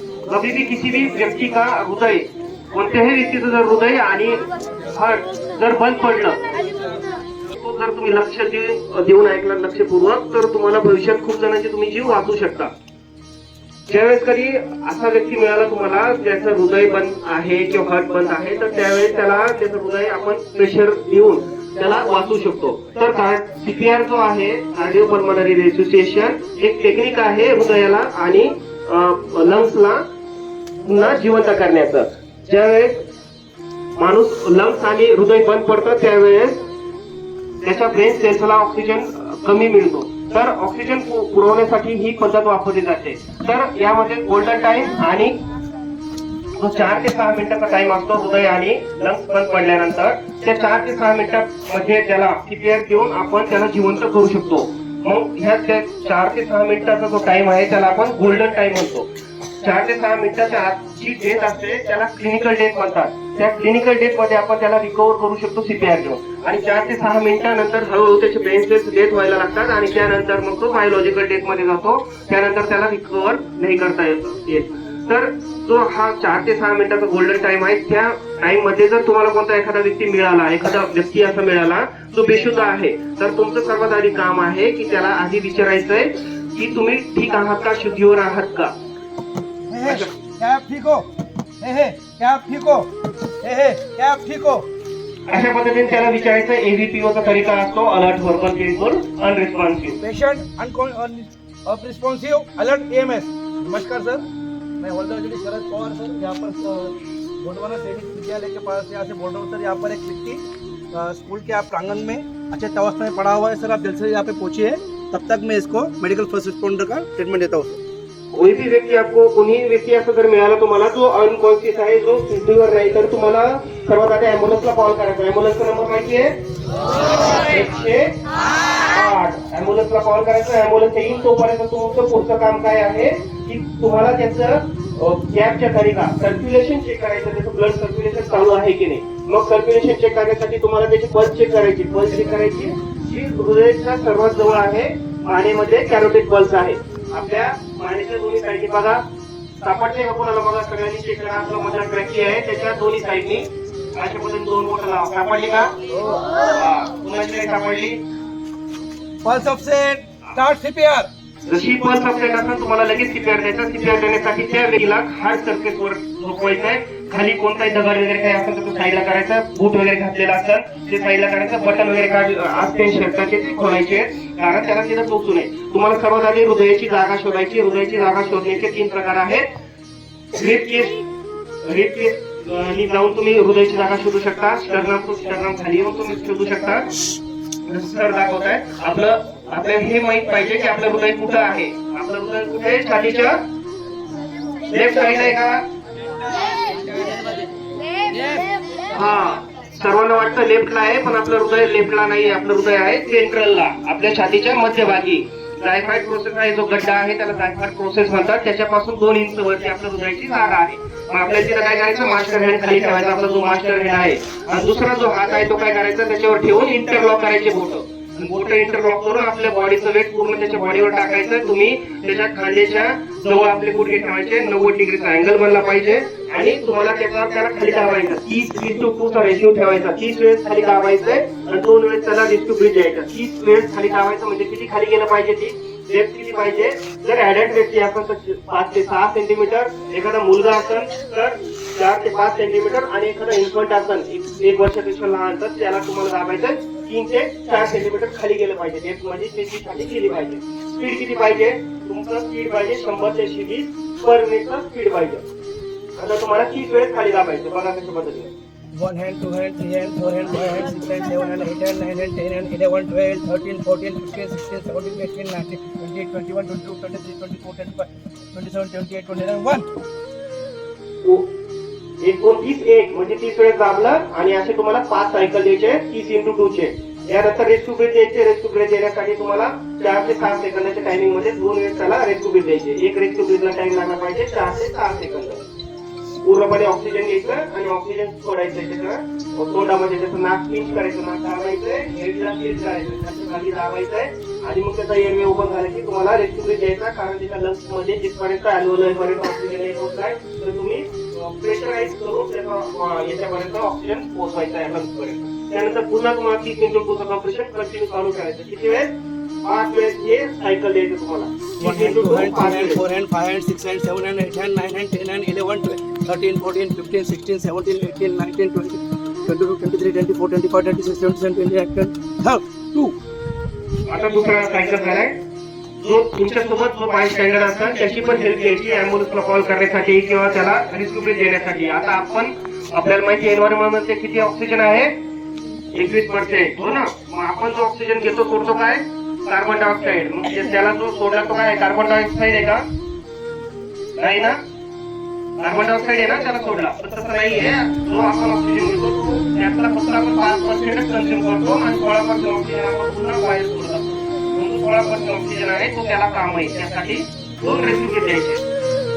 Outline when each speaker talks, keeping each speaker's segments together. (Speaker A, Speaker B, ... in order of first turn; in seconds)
Speaker A: 0.3-6.5, 7.5-12.7, 13.9-30.1, 30.8-33.0, 34.0-36.6, 37.6-45.4, 46.6-88.7, 89.8-90.1, 95.3-100.0, 118.3-126.3, 127.5-128.1, 128.9-149.0, 149.6-155.8, 156.4-158.0, 161.5-179.5, 180.3-181.0, 181.6-186.9, 187.7-193.4, 194.7-195.6, 198.9-255.2, 256.0-258.3, 272.0-285.4, 286.2-308.9, 309.4-312.8, 323.9-325.2, 325.8-334.9, 335.7-342.6, 344.0-344.4, 345.4-358.4
Speaker B: 89.7-91.1, 91.6-92.9, 93.4-94.7, 100.0-104.2, 104.8-117.8, 155.9-156.3, 159.2-161.1, 258.8-269.7, 311.6-323.0